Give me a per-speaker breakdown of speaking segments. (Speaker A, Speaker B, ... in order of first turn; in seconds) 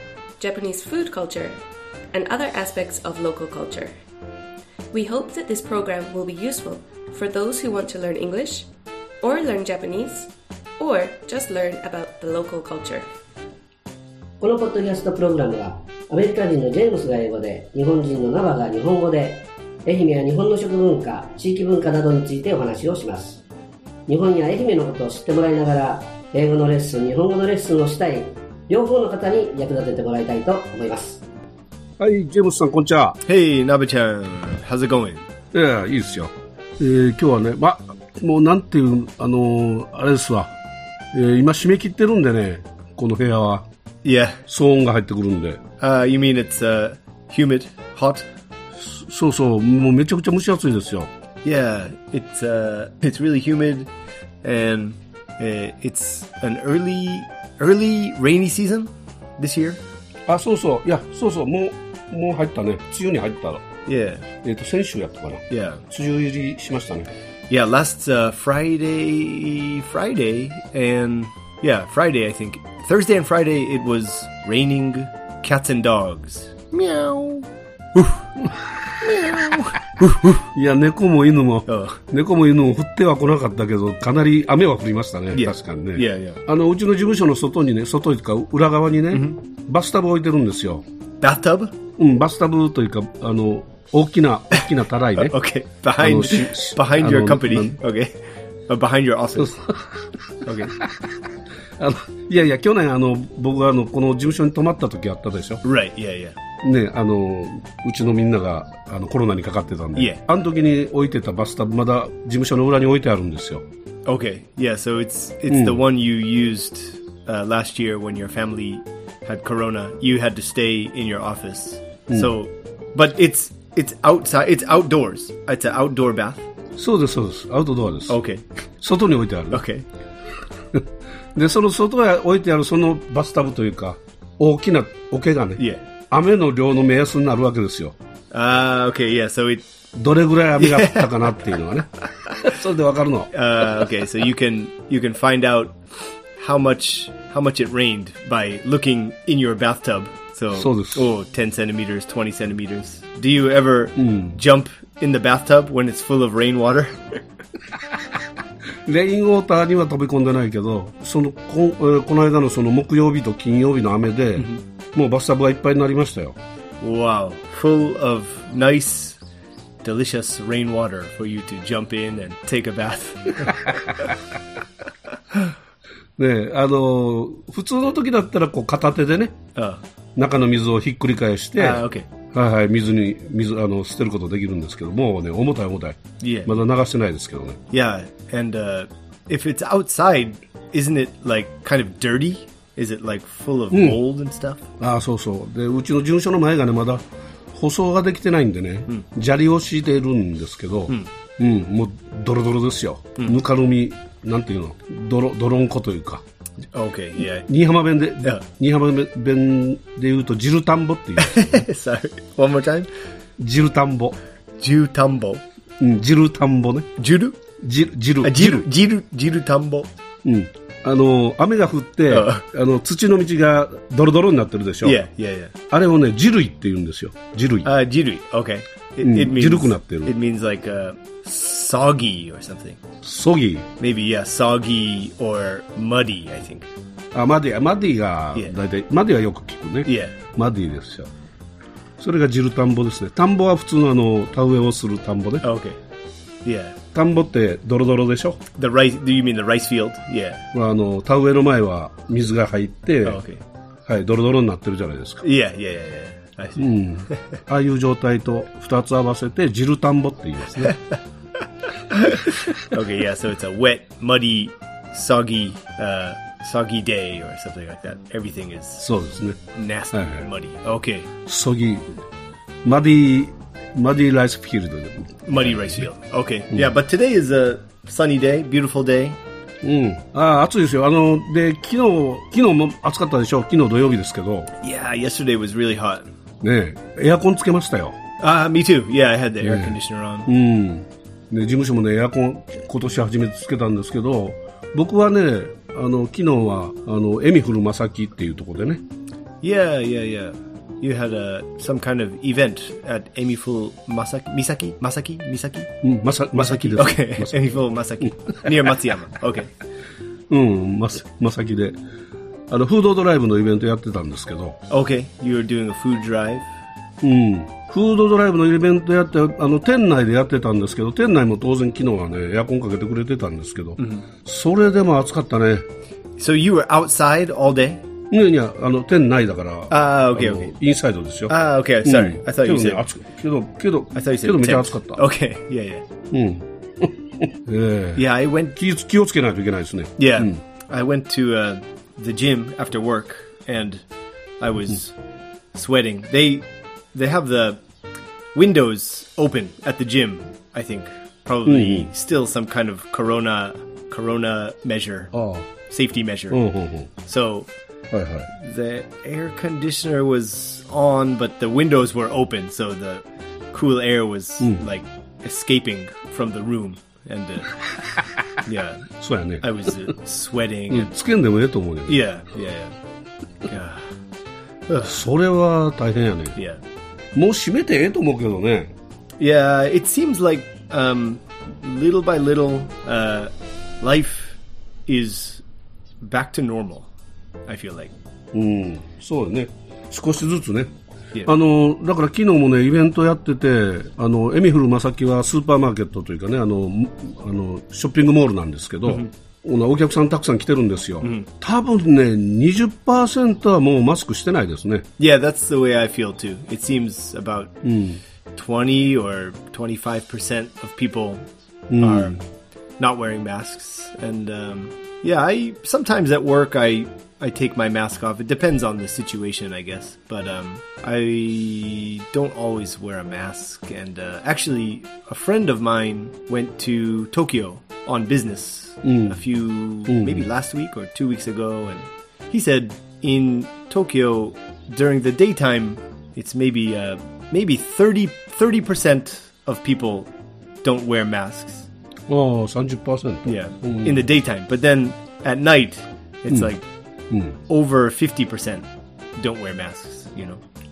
Speaker A: 0.4-1.6, 2.1-3.9, 4.9-8.7, 9.2-13.1
Speaker B: 14.4-23.4, 24.1-31.2
Speaker C: 32.0-33.2, 35.5-40.5, 41.1-43.7, 44.5-45.6, 48.8-51.1, 60.3-63.6, 64.4-67.1, 80.2-90.8, 92.0-95.4, 96.0-97.8, 99.4-101.2, 101.8-105.6, 106.6-113.6, 115.5-115.8, 126.8-128.2, 128.8-129.6, 130.7-137.9, 139.9-143.3, 150.6-151.1, 154.0-154.4, 158.9-166.4, 176.2-179.4, 180.2-187.6, 193.7-194.0, 194.8-206.2, 207.4-211.6, 213.4-214.2, 215.8-216.9, 217.6-218.7, 220.2-225.1, 225.7-227.7, 229.0-230.1, 233.0-233.7, 237.1-241.1, 242.0-245.5, 246.9-248.4, 250.5-253.2, 253.9-255.2, 256.6-260.8, 268.8-269.4, 269.9-270.2, 271.3-271.9, 272.6-275.8, 279.6-284.5, 286.4-288.0, 289.4-298.8, 305.8-308.8, 310.3-311.8, 312.5-314.6, 317.0-325.6, 328.1-335.0, 336.1-340.4, 351.5-351.9, 355.1-355.5, 356.3-356.9, 357.9-358.3, 368.9-369.5, 370.7-372.0, 374.8-376.4, 377.1-378.7, 388.3-390.7, 391.3-404.9, 407.6-408.0, 411.7-412.2, 428.8-429.2, 429.9-430.3, 442.1-444.1, 447.1-447.4
Speaker D: 33.2-35.2, 44.0-44.4, 45.8-48.3, 51.4-53.9, 54.4-59.8, 63.9-64.2, 65.5-65.8, 67.5-78.3, 79.0-80.4, 81.7-82.0, 85.3-86.4, 89.1-89.4, 91.2-91.8, 95.2-99.7, 100.4-100.8, 105.6-106.4, 110.0-110.2, 114.1-126.5, 128.1-128.4, 129.5-129.8, 138.3-139.7, 140.6-141.1, 143.3-145.8, 146.4-157.2, 166.8-169.2, 169.8-174.2, 179.6-179.8, 181.6-182.1, 186.2-186.6, 187.7-194.6, 206.7-207.5, 211.2-212.9, 214.6-215.4, 217.0-217.4, 218.2-219.9, 222.1-222.4, 224.8-225.5, 227.6-232.8, 233.8-236.7, 239.8-240.2, 245.4-245.8, 246.4-246.8, 248.6-250.4, 253.1-253.4, 255.2-257.4, 261.9-268.9, 269.5-271.1, 275.3-279.2, 284.6-286.1, 288.2-290.3, 299.4-305.7, 306.4-309.5, 314.7-316.5, 323.8-324.1, 326.2-327.9, 329.7-330.5, 331.3-332.8, 333.9-335.8, 337.9-338.6, 340.0-343.8, 344.4-344.9, 345.5-347.6, 348.3-355.1, 355.7-356.4, 357.0-357.5, 358.3-367.6, 368.4-368.9, 369.4-370.9, 371.9-372.8, 373.5-373.9, 374.7-375.0, 376.4-376.6, 379.2-385.4, 386.0-386.9, 387.5-387.9, 398.9-399.1, 401.0-401.3, 405.0-407.6, 408.3-411.3, 411.8-412.2, 412.8-440.1, 440.6-441.7, 443.3-446.7, 447.5-448.7, 449.2-450.4